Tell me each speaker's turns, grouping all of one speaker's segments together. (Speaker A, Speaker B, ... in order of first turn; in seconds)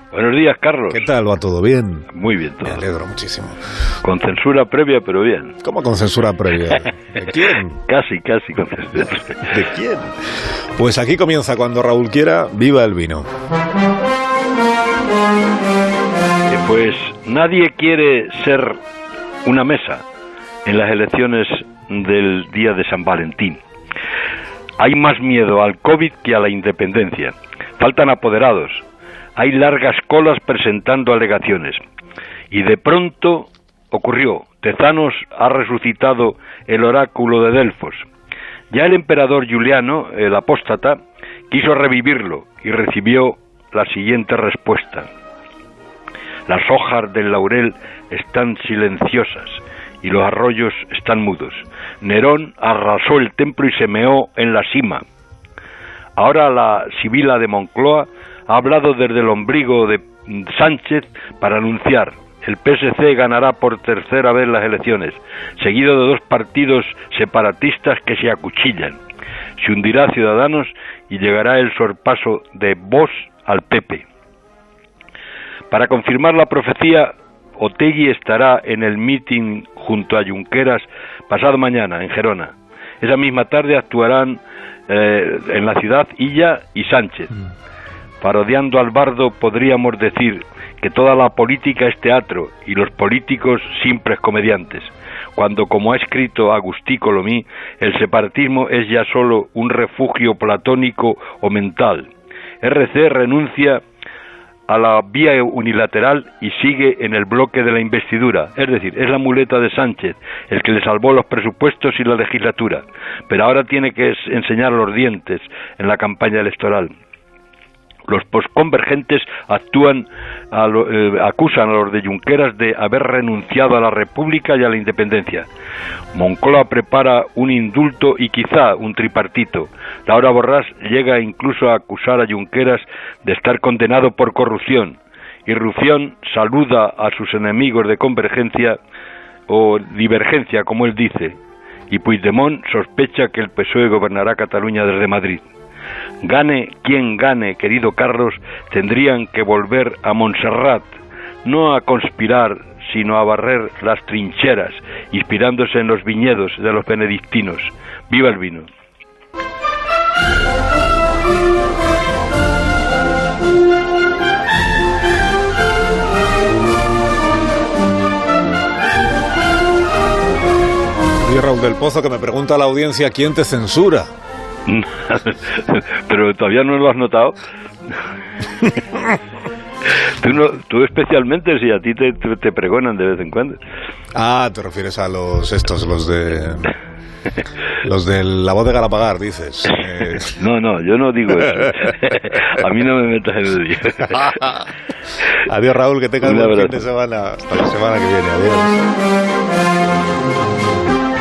Speaker A: 0.1-1.1, 2.1-2.8, 4.0-5.5, 7.9-9.5, 16.5-18.8, 19.4-20.0, 20.6-23.6, 24.8-28.8, 29.4-31.8, 32.5-38.1, 38.7-41.0, 41.5-45.1, 46.5-55.0, 56.2-69.0, 69.6-74.0, 75.7-87.3, 88.2-102.1, 102.6-103.8, 104.7-116.9, 118.1-125.5, 126.1-138.8, 139.5-141.4, 141.9-145.4, 146.2-150.9, 151.4-158.7, 174.7-177.3, 180.2-183.6, 190.2-194.6, 196.2-196.8
Speaker B: 0.9-2.1, 2.6-3.5, 5.6-7.8, 9.5-10.1, 10.8-13.3, 171.2-174.1, 184.1-186.7, 187.8-190.3, 195.4-198.8